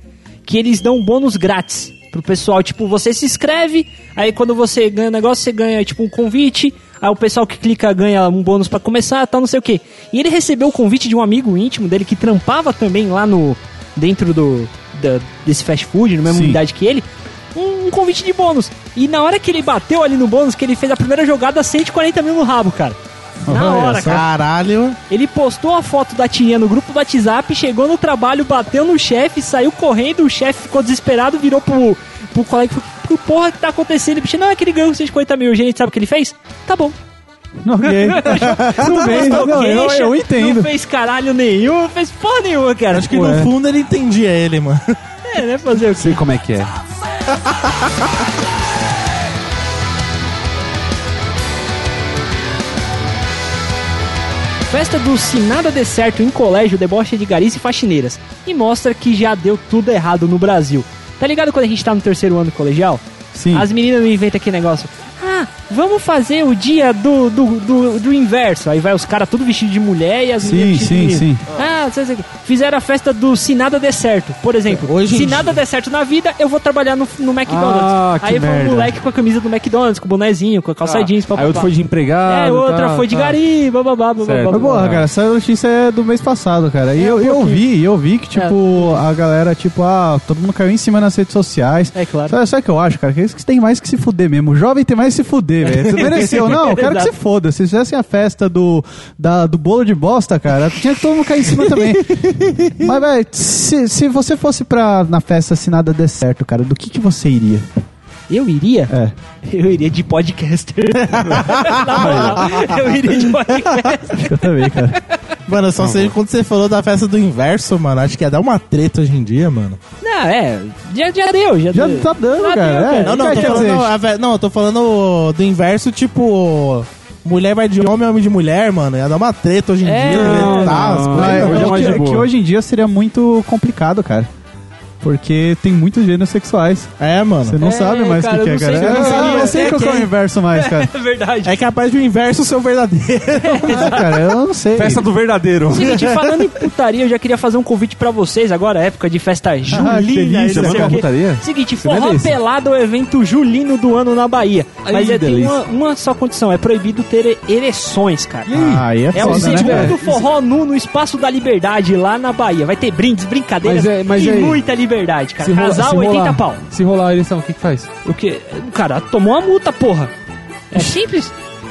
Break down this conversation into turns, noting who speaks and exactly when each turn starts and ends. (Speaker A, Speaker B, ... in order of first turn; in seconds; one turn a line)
Speaker A: 0.4-24.2
Speaker B: 16.2-16.6
Speaker B: 23.4-24.2
Speaker C: 24.0-25.0
Speaker A: 25.1-37.0
Speaker B: 37.6-40.7
Speaker A: 37.8-43.4
Speaker C: 42.9-44.9
Speaker D: 43.1-43.5
Speaker A: 45.2-46.2
Speaker D: 46.0-46.7
Speaker A: 54.7-81.7
Speaker B: 63.3-63.7
Speaker B: 70.4-71.4
Speaker C: 74.7-75.6
Speaker D: 77.5-78.9
Speaker D: 80.8-83.4
Speaker A: 82.2-84.8
Speaker D: 84.2-85.0
Speaker B: 84.5-107.7
Speaker A: 87.0-87.6
Speaker A: 88.3-89.0
Speaker A: 91.9-92.4
Speaker A: 95.6-97.1
Speaker A: 108.3-114.8
Speaker B: 108.9-109.1
Speaker C: 111.1-112.8
Speaker B: 112.0-112.5
Speaker B: 114.1-115.0
Speaker C: 115.5-119.8
Speaker D: 115.8-116.1
Speaker A: 120.0-123.8
Speaker B: 121.7-123.9
Speaker C: 123.0-132.0
Speaker A: 129.8-131.1
Speaker D: 130.1-132.3
Speaker B: 131.1-134.3
Speaker B: 135.0-136.9
Speaker C: 137.0-137.6
Speaker B: 137.4-140.9
Speaker A: 137.6-141.6
Speaker D: 138.7-139.5
Speaker C: 141.4-144.0
Speaker A: 143.4-144.2
Speaker B: 143.7-145.1
Speaker D: 144.7-146.1
Speaker A: 145.7-158.5
Speaker C: 145.8-146.5
Speaker B: 149.7-151.0
Speaker D: 150.5-152.3
Speaker D: 154.8-155.6
Speaker D: 158.5-160.2
Speaker B: 158.5-160.0
Speaker A: 159.1-166.6
Speaker D: 163.6-164.6
Speaker D: 165.4-167.9
Speaker A: 168.0-170.1
Speaker A: 170.7-171.3